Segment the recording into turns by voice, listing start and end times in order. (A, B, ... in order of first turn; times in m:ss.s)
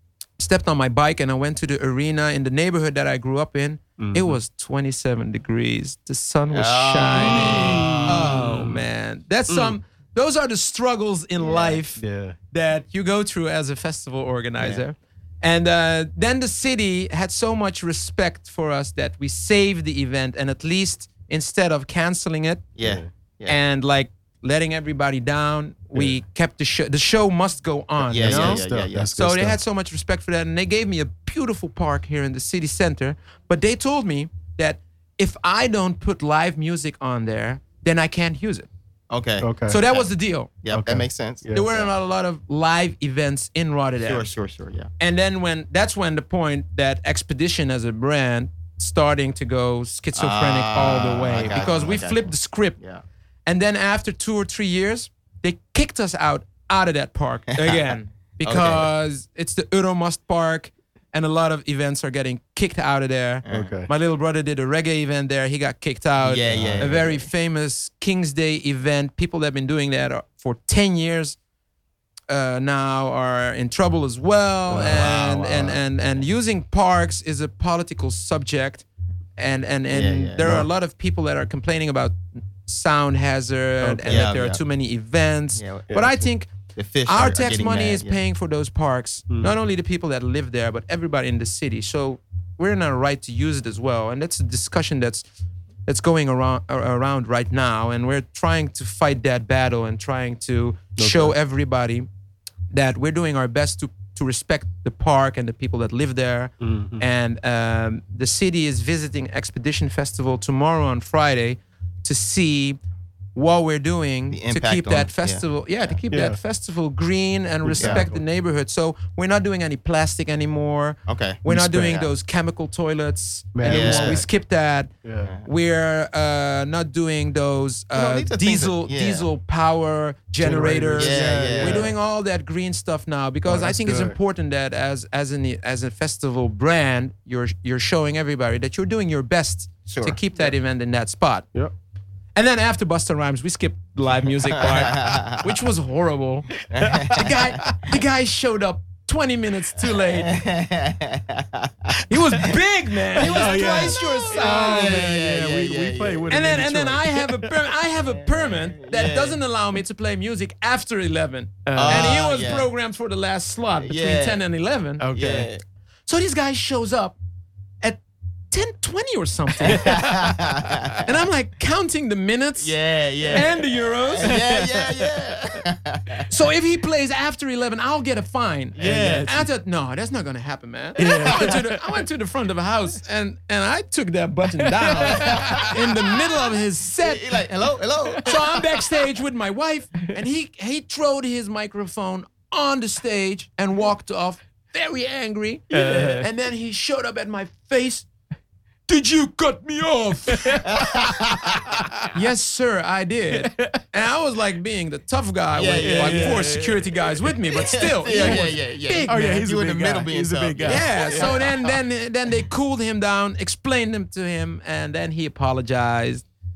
0:00.4-0:22.7 A
0:04.0-0:04.4 B
0:06.5-0:08.4 C
0:07.1-0:08.8 B
0:09.5-0:09.8 B
0:11.4-0:11.8 C
0:12.0-0:12.4 B
0:14.6-0:14.8 C
0:22.8-0:23.6 C
0:22.8-0:23.1 B
0:23.5-0:28.6 A
0:28.0-0:29.1 C
0:28.2-0:29.6 B
0:29.2-0:38.7 A
0:39.1-0:40.0 C
0:39.4-0:39.8 B
0:39.7-0:40.5 A
0:40.6-0:41.9 C
0:40.7-0:41.7 B
0:41.5-0:44.3 A
0:44.0-0:44.9 C
0:45.0-0:52.8 A
0:50.2-0:53.0 C
0:53.4-1:11.4 A
0:57.6-0:57.9 C
0:58.4-0:58.9 C
1:03.4-1:03.7 C
1:03.5-1:03.9 B
1:06.2-1:07.3 C
1:06.5-1:06.9 B
1:12.3-1:18.8 A
1:14.7-1:15.2 B
1:14.8-1:15.8 C
1:19.4-1:26.5 A
1:19.9-1:20.6 C
1:20.4-1:20.7 B
1:23.8-1:24.3 B
1:24.0-1:24.6 C
1:25.6-1:26.1 C
1:25.9-1:26.2 B
1:26.8-1:28.2 C
1:27.0-1:35.2 A
1:35.8-1:42.1 A
1:41.0-1:41.3 B
1:42.7-1:52.8 A
1:46.6-1:47.0 B
1:53.3-2:04.9 A
1:54.3-1:56.0 C
1:56.1-1:56.4 B
1:57.6-1:58.2 B
2:01.1-2:02.1 C
2:01.5-2:02.0 B
2:03.5-2:04.2 B
2:03.6-2:04.2 C
2:05.0-2:05.3 B
2:05.4-2:21.5 A
2:07.9-2:09.3 C
2:10.4-2:11.9 B
2:10.9-2:11.9 C
2:13.4-2:14.2 B
2:19.9-2:20.2 C
2:22.3-2:26.5 A
2:24.6-2:25.4 C
2:26.7-2:27.7 B
2:26.7-2:27.4 C
2:27.1-2:30.3 A
2:29.8-2:32.0 C
2:32.1-2:35.0 A
2:33.2-2:37.6 B
2:33.2-2:36.4 C
2:36.3-2:45.1 A
2:38.0-2:39.4 C
2:41.6-2:42.3 B
2:41.8-2:42.7 C
2:43.8-2:44.4 C
2:45.0-2:45.5 B
2:45.1-2:45.6 C
2:46.0-2:47.2 A
2:47.8-2:52.7 A
2:49.7-2:50.0 B
2:49.7-2:51.1 C
2:52.6-2:56.3 C
2:53.2-2:53.5 B
2:53.3-2:54.4 A
2:54.2-2:55.6 B
2:56.3-3:07.4 A
2:58.7-2:59.4 C
2:58.8-2:59.5 B
3:01.0-3:02.0 B
3:01.0-3:01.5 C
3:04.6-3:06.2 B
3:05.0-3:05.7 C
3:07.0-3:08.6 C
3:08.0-3:08.8 B
3:08.2-3:18.1 A
3:15.7-3:16.3 B
3:18.9-3:20.8 A
3:20.3-3:22.1 B
3:20.7-3:21.8 C
3:22.1-3:29.4 A
3:23.3-3:23.8 B
3:25.5-3:26.5 C
3:25.8-3:27.4 B
3:27.5-3:31.7 C
3:28.1-3:28.5 B
3:29.0-3:31.5 B
3:30.6-3:36.2 A